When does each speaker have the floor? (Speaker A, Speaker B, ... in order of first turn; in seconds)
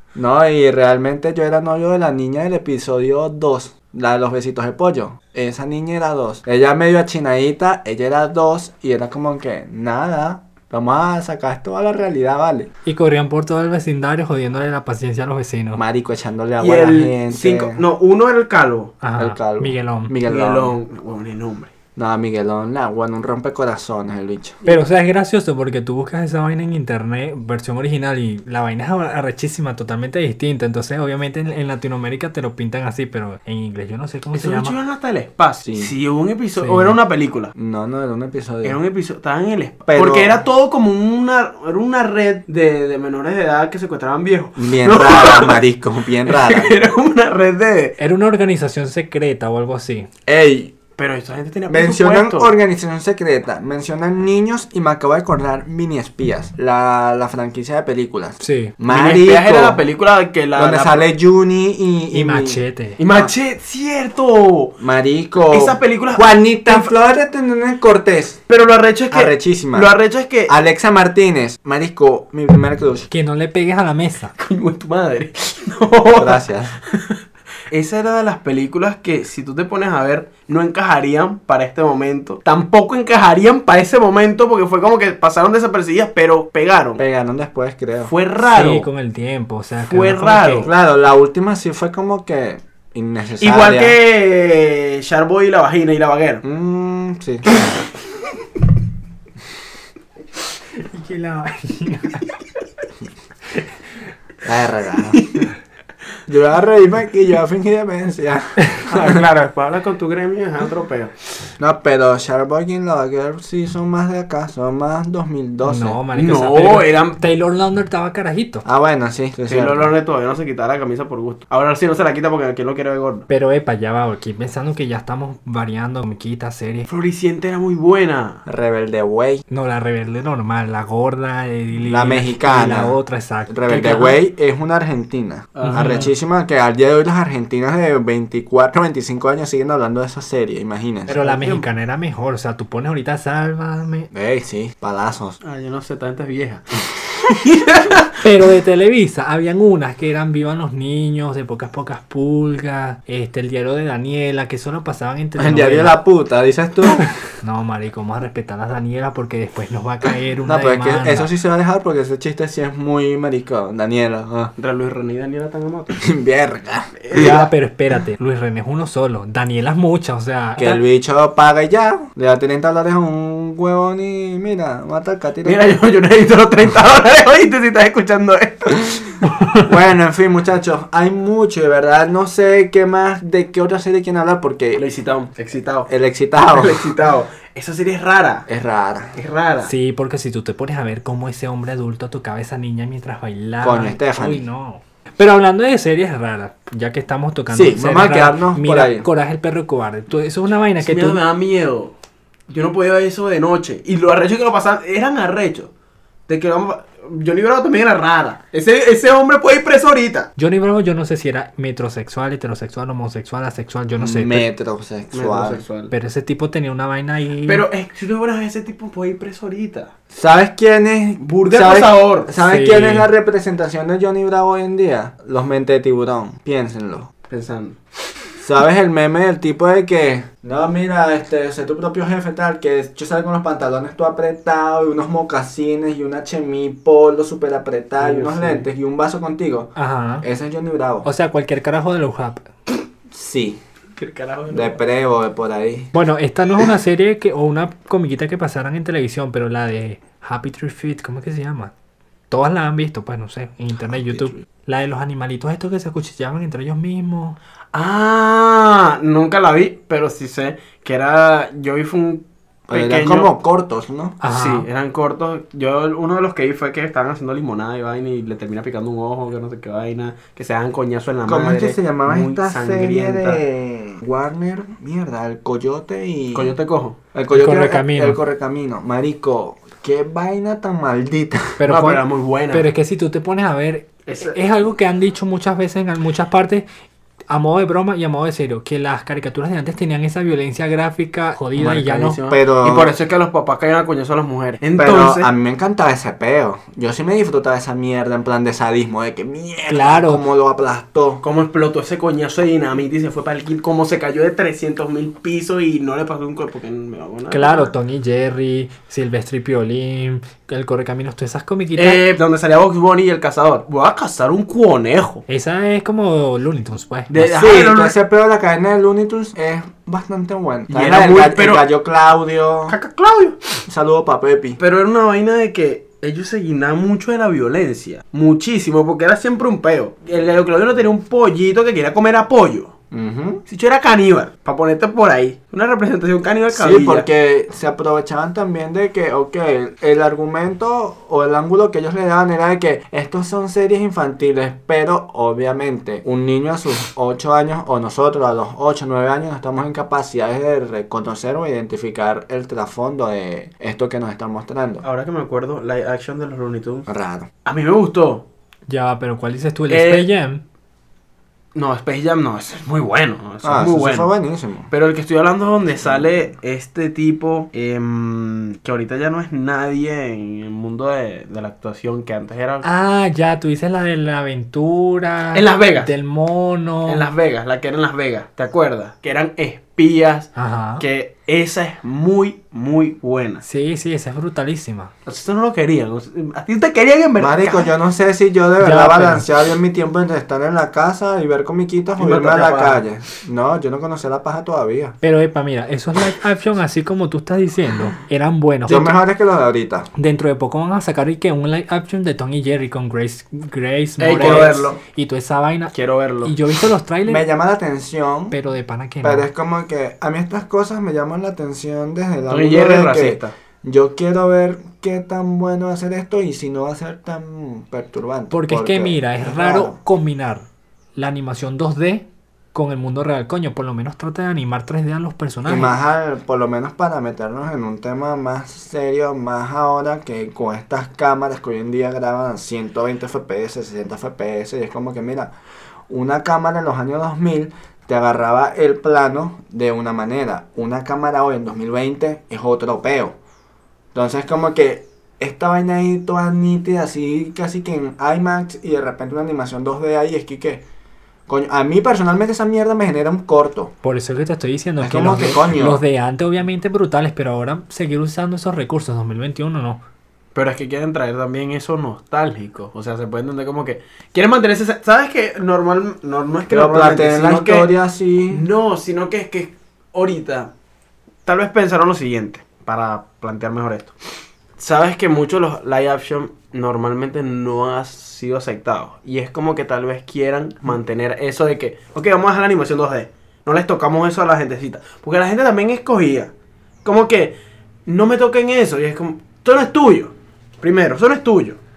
Speaker A: 0.1-12.7, 15.8-17.8, 19.1-20.8, 21.9-24.6, 35.6-35.9, 37.5-38.8, 39.9-40.4, 44.6-46.7, 50.2-50.8, 51.7-59.8, 60.5-63.3, 64.8-68.4, 69.1-69.9, 70.5-73.1, 76.2-76.8, 87.0-88.1, 90.6-94.0, 96.4-97.6, 104.4-105.3, 106.3-109.2, 111.6-116.0, 118.6-119.9, 128.4-129.4, 131.9-133.0, 133.5-141.2, 144.1-145.4, 155.4-157.1, 160.4-164.5, 166.0-167.3, 170.6-175.7, 179.6-184.8, 185.9-186.9, 188.5-189.2, 193.6-194.4, 197.5-199.1, 214.0-215.6, 220.1-227.1, 228.4-241.1, 243.1-243.6, 244.5-245.9, 262.7-264.2, 271.2-276.6, 277.1-281.6, 292.3-292.9, 294.8-301.2, 317.2-322.8, 323.6-324.6, 332.9-333.4, 336.5-354.8, 356.9-357.3, 363.4-364.7, 387.2-395.0, 398.7-399.9, 404.2-404.6, 407.1-408.4, 409.0-419.8, 425.4-435.3, 435.9-443.1, 443.9-450.6, 451.3-453.7, 454.8-455.8, 466.5-468.4
Speaker B: 12.8-15.8, 19.0-20.1, 24.6-34.8, 36.6-37.0, 48.0-50.1, 58.4-58.7, 62.1-63.0, 73.1-74.3, 88.4-90.7, 100.8-102.2, 115.6-118.6, 123.3-126.9, 129.5-134.2, 135.6-136.1, 141.1-144.1, 148.2-156.0, 157.4-161.3, 167.1-170.8, 189.6-201.2, 210.4-214.4, 215.9-217.6, 222.4-223.1, 239.8-240.2, 241.0-242.5, 245.9-251.7, 252.3-257.4, 264.2-264.7, 277.3-278.2, 281.6-286.7, 287.3-292.2, 299.7-300.2, 307.3-312.0, 315.3-317.3, 358.7-360.4, 372.6-377.1, 380.4-380.8, 383.4-384.9, 388.6-389.2, 395.0-399.0, 399.9-405.7, 406.2-407.2, 408.3-409.3, 418.3-425.8, 453.8-459.8
Speaker C: 16.6-18.9, 20.3-21.7, 34.3-37.5, 38.6-45.6, 46.2-48.0, 51.0-52.5, 58.9-61.1, 63.0-64.8, 65.5-66.9, 68.5-70.5, 74.4-77.2, 77.7-87.0, 88.0-88.9, 89.8-90.7, 93.4-96.4, 105.1-105.5, 108.9-111.1, 116.1-117.2, 119.5-123.2, 126.9-128.4, 135.6-136.1, 141.1-141.7, 145.4-146.6, 147.2-148.1, 164.6-166.0, 167.0-167.5, 175.4-179.2, 184.8-188.4, 189.2-189.7, 200.8-201.9, 202.5-205.7, 206.3-210.3, 215.1-215.9, 217.4-219.9, 221.2-222.3, 227.3-227.8, 238.0-238.7, 244.0-244.8, 257.7-263.3, 264.3-273.4, 276.3-277.0, 281.6-282.7, 284.1-284.4, 291.6-295.3, 301.2-307.7, 311.8-315.2, 317.1-317.9, 320.7-321.6, 322.7-323.4, 324.6-332.7, 333.5-337.1, 354.8-356.9, 357.4-358.2, 359.7-360.1, 361.5-364.1, 364.7-372.7, 375.3-375.9, 376.9-383.4, 385.1-387.7, 392.0-392.8, 404.0-404.8, 405.7-406.4, 412.3-413.3, 460.3-467.7, 468.3-470.5, 471.2-473.9, 474.6-486.3, 486.8-491.6